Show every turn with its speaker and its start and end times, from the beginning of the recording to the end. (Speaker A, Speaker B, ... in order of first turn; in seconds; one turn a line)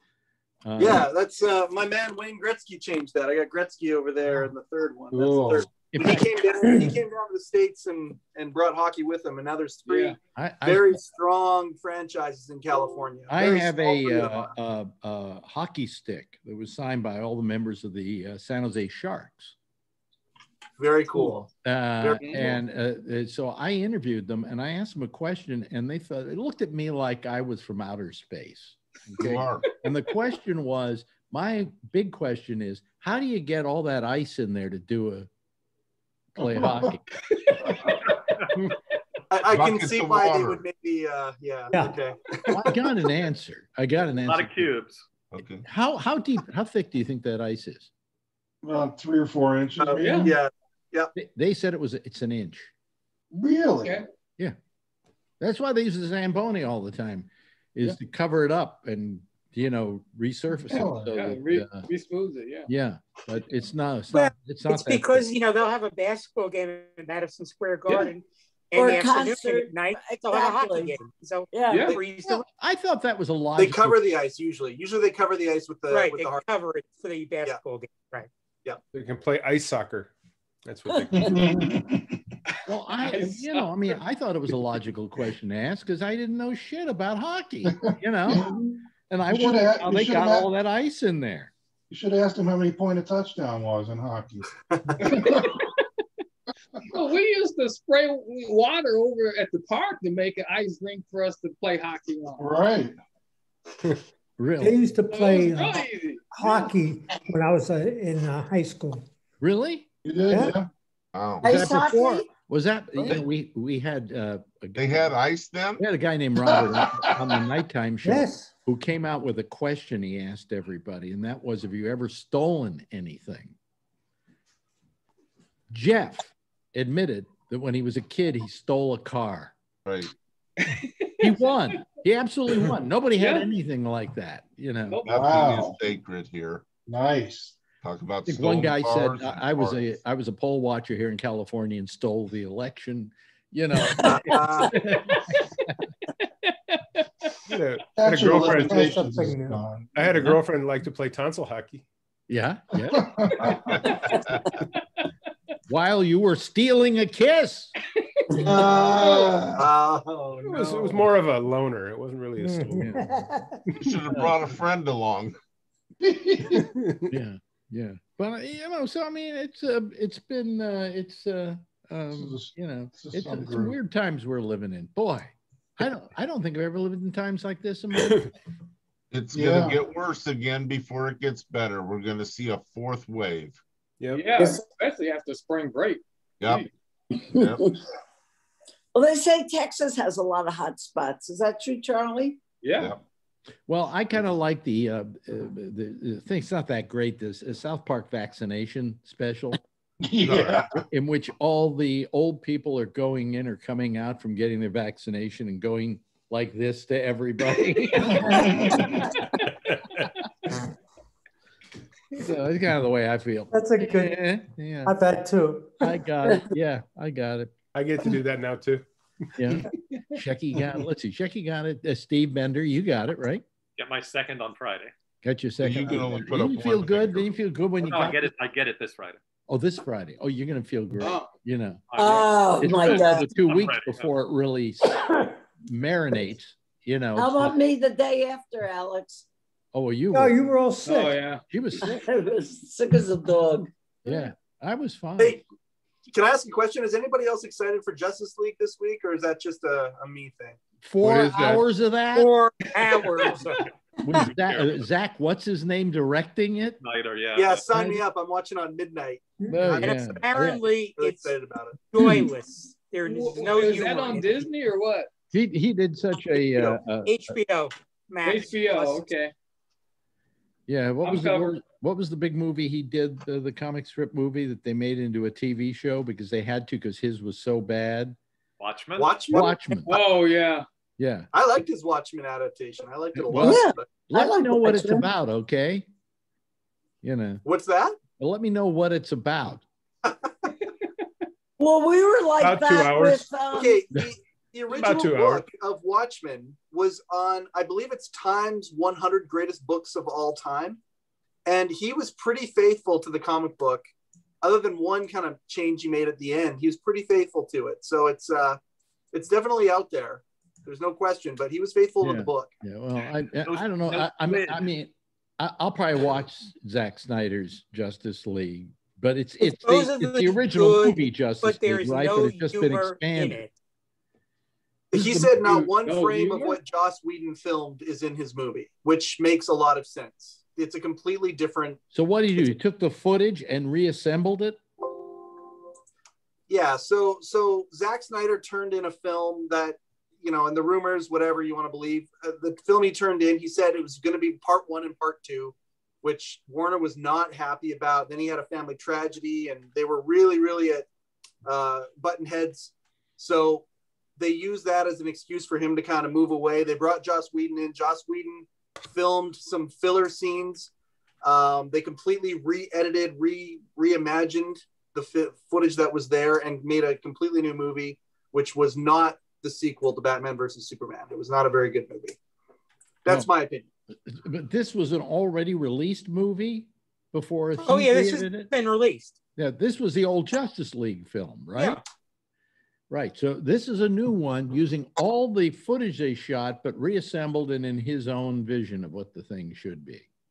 Speaker A: 0.6-1.1
Speaker B: 0.8-14.5
Speaker C: 5.1-5.7
Speaker A: 5.9-6.2
Speaker D: 6.7-6.9
Speaker E: 9.8-10.2
Speaker A: 10.3-11.0
Speaker A: 13.3-19.5
Speaker B: 20.8-21.5
Speaker A: 21.2-35.3
Speaker B: 22.0-22.6
Speaker F: 29.2-29.7
Speaker A: 36.3-37.0
Speaker C: 36.4-36.9
Speaker B: 39.3-42.2
Speaker F: 39.5-40.6
Speaker D: 41.7-42.0
Speaker A: 42.5-44.7
Speaker G: 44.2-45.0
Speaker F: 45.3-45.6
Speaker A: 45.6-47.9
Speaker C: 48.6-50.4
Speaker B: 49.8-51.1
Speaker A: 51.1-52.7
Speaker C: 53.3-54.0
Speaker A: 55.4-61.9
Speaker C: 60.7-61.1
Speaker E: 61.1-62.7
Speaker A: 62.6-65.3
Speaker H: 64.1-72.4
Speaker I: 68.7-71.0
Speaker I: 71.5-71.9
Speaker A: 72.2-74.1
Speaker B: 73.5-76.4
Speaker H: 75.9-78.3
Speaker J: 78.9-80.1
Speaker J: 80.7-81.5
Speaker C: 81.2-82.3
Speaker A: 82.7-91.5
Speaker E: 83.0-83.9
Speaker C: 87.7-88.6
Speaker C: 89.3-90.5
Speaker C: 91.9-95.5
Speaker B: 94.7-95.0
Speaker E: 95.2-95.7
Speaker E: 96.9-102.5
Speaker C: 102.4-103.0
Speaker A: 104.4-104.8
Speaker D: 104.6-109.1
Speaker E: 105.1-106.2
Speaker A: 109.4-109.9
Speaker C: 110.0-110.7
Speaker D: 110.3-110.6
Speaker F: 111.1-111.5
Speaker I: 111.4-112.3
Speaker A: 111.4-115.1
Speaker F: 114.7-115.8
Speaker A: 115.8-123.5
Speaker C: 116.6-117.1
Speaker D: 118.0-118.5
Speaker A: 125.7-129.5
Speaker F: 129.8-130.1
Speaker E: 130.6-131.8
Speaker A: 131.2-135.0
Speaker E: 133.2-133.5
Speaker E: 134.9-135.7
Speaker F: 135.0-136.7
Speaker C: 135.1-135.8
Speaker C: 136.8-137.5
Speaker F: 137.8-139.8
Speaker A: 138.2-145.7
Speaker B: 144.0-144.8
Speaker E: 146.5-147.0
Speaker J: 147.5-149.0
Speaker C: 148.0-150.1
Speaker D: 148.3-149.7
Speaker J: 149.9-151.8
Speaker A: 152.3-153.1
Speaker C: 152.9-153.8
Speaker F: 153.7-154.2
Speaker A: 155.7-157.7
Speaker C: 158.4-159.7
Speaker B: 159.6-161.1
Speaker J: 160.4-162.9
Speaker D: 162.4-163.6
Speaker A: 162.8-163.1
Speaker F: 163.8-165.3
Speaker C: 166.0-166.7
Speaker J: 166.5-167.0
Speaker A: 167.1-178.3
Speaker C: 172.1-173.7
Speaker F: 179.1-183.6
Speaker C: 179.3-179.8
Speaker J: 184.0-184.2
Speaker E: 184.1-186.7
Speaker F: 186.4-186.7
Speaker F: 187.2-187.7
Speaker I: 187.3-187.7
Speaker I: 188.9-192.4
Speaker E: 192.6-193.0
Speaker A: 193.7-199.6
Speaker C: 200.1-200.7
Speaker F: 200.2-200.7
Speaker A: 200.9-209.0
Speaker C: 208.2-208.9
Speaker A: 212.2-215.0
Speaker D: 213.5-214.2
Speaker D: 214.8-216.0
Speaker A: 215.8-217.5
Speaker J: 217.7-218.8
Speaker A: 219.3-223.4
Speaker G: 223.8-224.9
Speaker A: 225.2-228.3
Speaker F: 225.6-227.3
Speaker G: 227.8-229.2
Speaker A: 229.5-231.8
Speaker G: 231.9-234.1
Speaker I: 231.9-233.3
Speaker A: 232.6-237.6
Speaker I: 237.1-239.2
Speaker A: 239.7-240.5
Speaker D: 240.1-241.2
Speaker E: 240.8-241.4
Speaker A: 241.5-242.0
Speaker I: 241.8-243.7
Speaker A: 244.0-245.4
Speaker B: 246.1-250.6
Speaker A: 250.8-252.3
Speaker H: 252.1-253.7
Speaker A: 254.0-256.8
Speaker G: 254.3-254.8
Speaker G: 256.8-257.7
Speaker B: 257.3-259.2
Speaker A: 259.5-260.6
Speaker H: 259.7-261.3
Speaker B: 261.0-261.8
Speaker H: 261.9-264.5
Speaker E: 263.0-265.1
Speaker A: 265.3-267.4
Speaker H: 266.5-268.6
Speaker E: 268.2-269.3
Speaker B: 268.7-269.0
Speaker A: 270.7-278.1
Speaker E: 271.0-271.6
Speaker G: 278.6-280.1
Speaker B: 278.9-279.6
Speaker A: 279.3-280.1
Speaker E: 279.9-280.6
Speaker A: 281.0-281.3
Speaker B: 281.3-284.0
Speaker A: 283.1-285.9
Speaker I: 283.3-285.1
Speaker A: 287.0-287.4
Speaker B: 287.4-287.9
Speaker A: 288.2-289.6
Speaker I: 291.6-293.9
Speaker J: 292.4-293.3
Speaker B: 293.5-300.8
Speaker J: 294.7-295.4
Speaker B: 301.4-303.8
Speaker B: 304.4-308.6
Speaker B: 309.1-312.5
Speaker A: 312.0-323.4
Speaker G: 313.4-314.7
Speaker H: 319.4-323.5
Speaker B: 324.9-331.8
Speaker A: 324.9-325.6
Speaker E: 325.4-326.6
Speaker A: 331.9-334.6
Speaker B: 336.5-350.8
Speaker B: 351.4-353.6
Speaker B: 354.2-360.7
Speaker B: 361.2-372.2
Speaker B: 373.0-373.7
Speaker A: 374.1-378.5
Speaker H: 377.6-379.1
Speaker A: 379.4-381.8
Speaker A: 382.9-390.1